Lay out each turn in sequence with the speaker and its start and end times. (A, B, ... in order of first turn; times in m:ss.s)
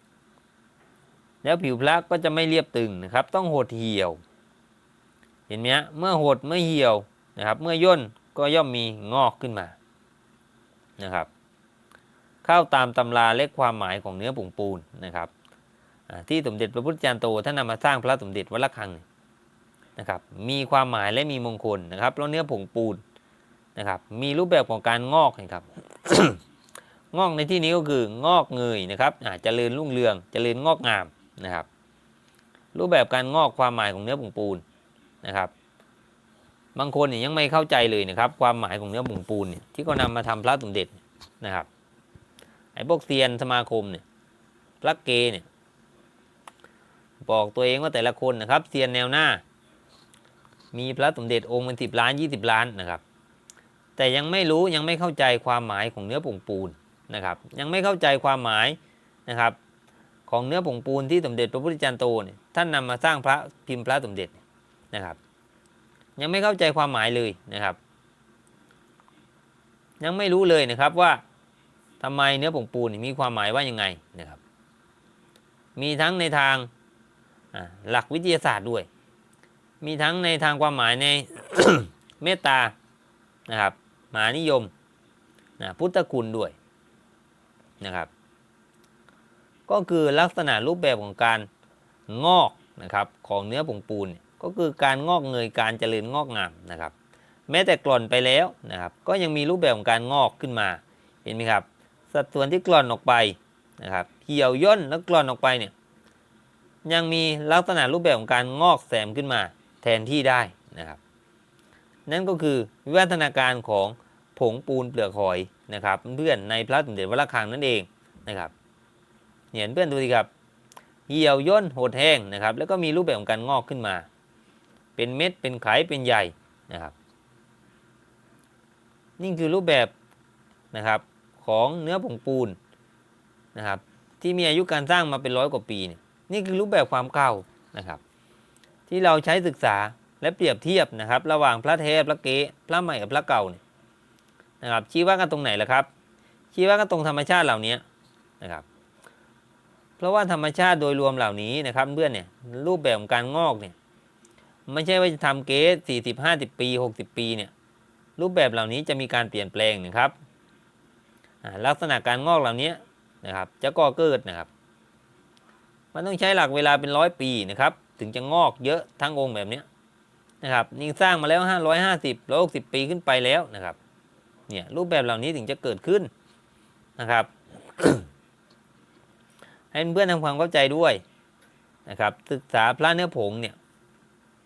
0:01.4-0:04.2 A
0:05.5-0:09.8 A
0:11.0-0:11.3 A
0:12.4-0:15.3 A
0:16.1-0:19.0 A
0:20.0-0:23.0 A
0:23.8-0:26.4 A
0:27.1-0:31.7 A
0:32.7-0:34.6 A
0:35.2-0:35.5 A
0:36.7-0:41.7 A
0:42.7-0:44.0 A
0:44.8-0:45.4 A
0:47.2-0:49.4 A
0:50.7-0:53.0 A
0:54.0-0:59.6 A
1:00.3-1:04.4 A
1:04.9-1:05.2 A
1:06.2-1:07.8 A
1:10.0-1:11.2 A
1:12.0-1:14.4 A
1:15.8-1:16.7 A
1:17.5-1:18.9 A
1:19.8-1:22.7 A
1:23.5-1:24.7 A
1:25.6-1:26.5 A
1:27.8-1:28.1 A
1:29.7-1:31.5 A
1:32.1-1:36.9 A
1:37.5-1:45.7 A
1:46.8-1:51.0 A
1:52.0-1:58.5 A
1:59.5-2:00.3 A
2:01.1-2:04.1 A
2:05.0-2:06.9 A
2:09.2-2:09.9 A
2:10.7-2:12.6 A
2:13.5-2:18.0 A
2:18.9-2:23.6 A
2:24.6-2:25.9 A
2:26.5-2:27.8 A
2:30.0-2:33.7 A
2:34.7-2:37.5 A
2:38.2-2:40.1 A
2:41.4-2:44.5 A
2:45.9-2:49.6 A
2:50.4-2:53.8 A
2:54.5-2:56.1 A
2:57.0-2:58.0 A
2:59.7-3:01.0 A
3:01.8-3:03.6 A